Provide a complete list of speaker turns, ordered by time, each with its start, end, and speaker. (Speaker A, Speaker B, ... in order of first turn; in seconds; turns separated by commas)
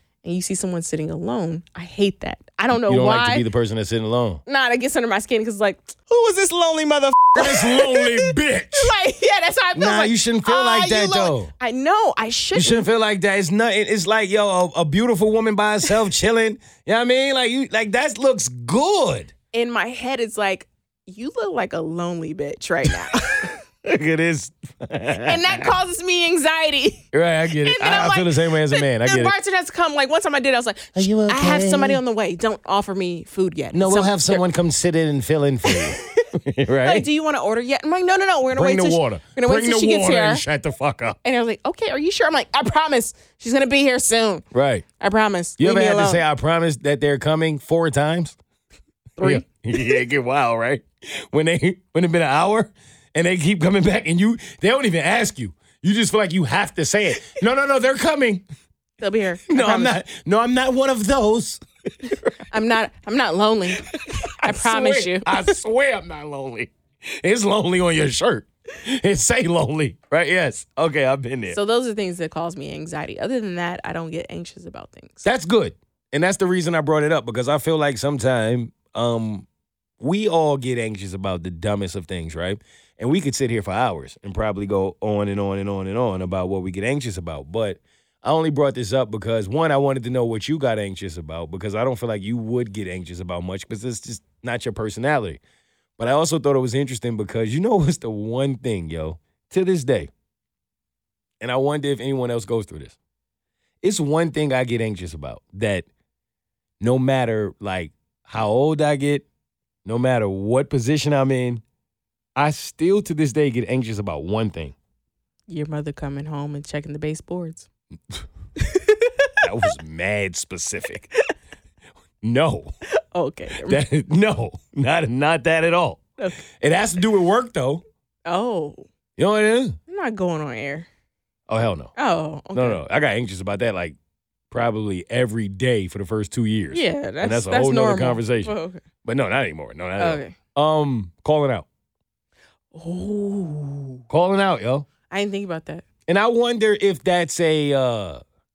Speaker A: 0.2-3.5, Speaker B: 2.7-4.4, Speaker A: 4.5-12.9, Speaker B: 7.3-8.9, Speaker B: 9.7-11.5, Speaker B: 12.5-19.3, Speaker A: 19.5-23.6, Speaker B: 23.8-25.7, Speaker A: 25.2-27.1, Speaker B: 27.1-29.3, Speaker A: 27.6-34.4, Speaker B: 30.9-32.0, Speaker B: 33.7-37.1, Speaker A: 35.6-40.4, Speaker B: 38.5-41.2, Speaker A: 41.2-44.5, Speaker B: 44.5-44.8, Speaker A: 45.0-46.2, Speaker B: 45.6-48.4, Speaker A: 49.2-49.5, Speaker B: 49.2-58.4, Speaker A: 59.0-60.0, Speaker B: 59.5-62.4, Speaker A: 62.5-65.6, Speaker B: 63.9-71.6, Speaker A: 71.5-75.2, Speaker B: 75.2-79.5, Speaker B: 80.0-95.4, Speaker B: 96.0-100.1, Speaker B: 101.4-103.0, Speaker B: 103.8-105.8, Speaker B: 106.8-109.2, Speaker B: 109.8-111.6, Speaker B: 112.3-114.7, Speaker A: 115.5-117.7, Speaker A: 118.6-119.5, Speaker B: 119.4-121.1, Speaker B: 122.2-122.7, Speaker A: 123.1-123.8, Speaker B: 123.6-126.0, Speaker A: 126.2-126.4, Speaker B: 126.5-127.8, Speaker A: 128.2-128.8, Speaker B: 129.2-129.8, Speaker A: 129.9-130.9, Speaker B: 131.5-131.9, Speaker A: 131.9-132.8, Speaker B: 132.5-133.9, Speaker B: 134.5-141.7, Speaker A: 136.7-138.8, Speaker A: 140.0-140.3, Speaker A: 142.7-144.0, Speaker B: 144.1-144.8, Speaker A: 145.1-145.8, Speaker B: 146.1-148.2